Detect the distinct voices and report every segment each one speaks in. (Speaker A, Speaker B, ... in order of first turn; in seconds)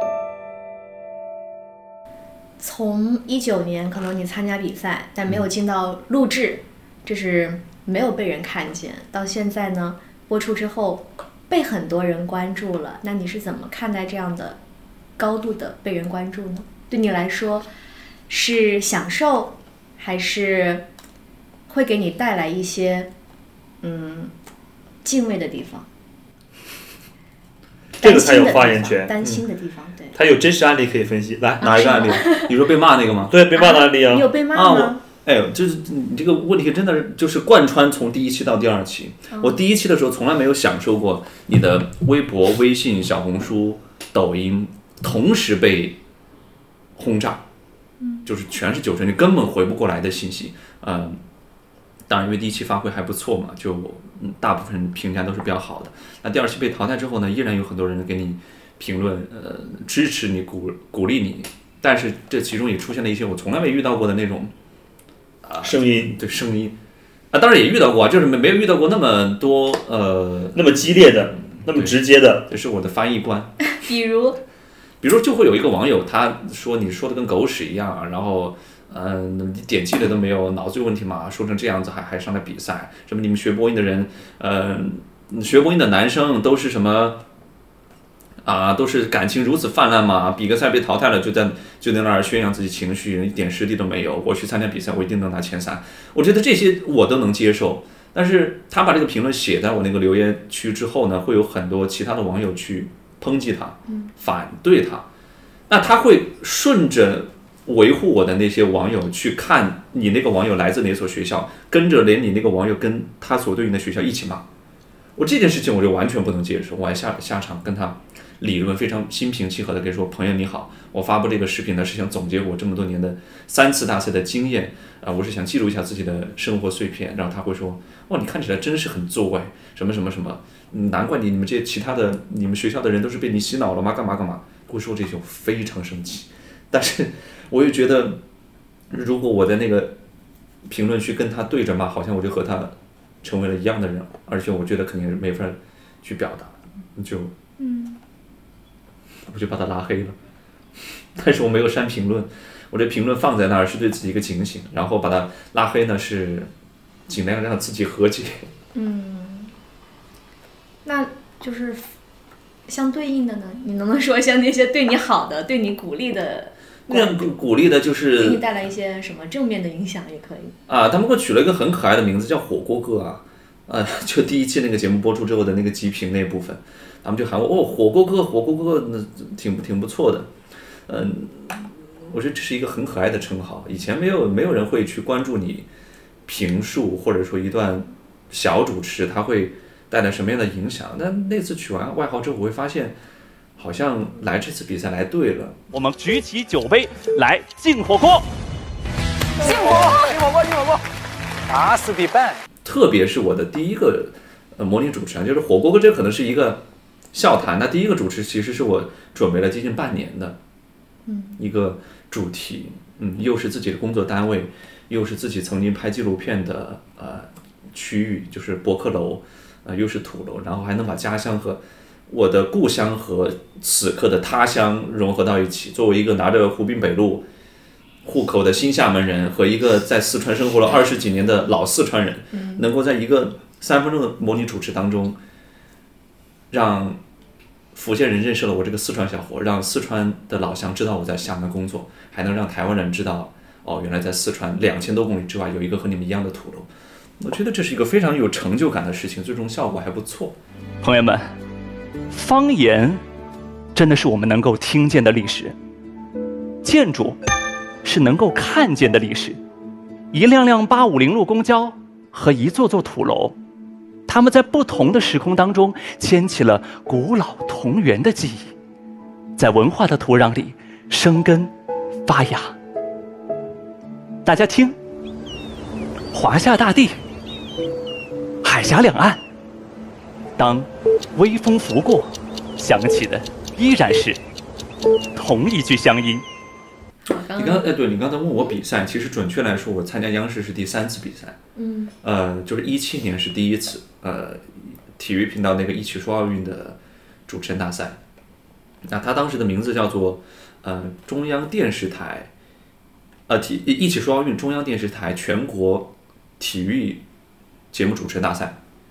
Speaker A: 2.6-14.6, 15.2-17.7, 18.3-20.8, 21.7-23.1, 23.8-24.3, 25.0-25.9, 28.0-30.1, 31.6-32.5, 33.5-35.0, 39.3-39.6, 48.0-48.2, 73.7-74.4, 147.6-148.0, 158.7-159.5, 160.8-161.9, 162.7-167.4, 168.2-170.5, 211.1-211.4, 232.3-232.6, 287.1-287.6, 291.6-291.9
Speaker B: 28.0-29.1, 30.1-31.6, 33.3-34.3, 65.6-66.1, 70.5-72.5
Speaker C: 31.6-33.3, 34.5-46.0, 47.0-47.4, 48.2-51.2, 52.1-64.5, 65.4-66.8, 67.3-70.6, 71.7-73.5, 75.0-87.2, 88.4-105.0, 105.7-114.4, 115.2-138.2, 138.9-140.0, 140.6-147.3, 149.3-150.2, 151.1-156.5, 157.1-158.5, 166.9-168.4, 170.7-180.3, 180.9-185.7, 186.2-192.9, 193.6-195.6, 202.6-206.6, 207.1-210.4, 211.4-227.2, 228.0-235.2, 236.5-237.0, 237.7-250.4, 287.4-291.4, 292.0-298.0, 298.8-302.3, 303.3-307.0, 307.7-308.6
Speaker D: 195.7-198.2, 199.4-199.8, 201.5-202.1, 250.8-251.3, 252.1-253.0, 253.7-255.5, 256.6-257.2, 257.8-259.4, 260.1-263.3, 264.1-268.5, 269.4-271.5, 272.1-272.5, 274.2-274.8, 276.1-277.0, 278.4-279.2, 280.4-284.2, 285.1-286.2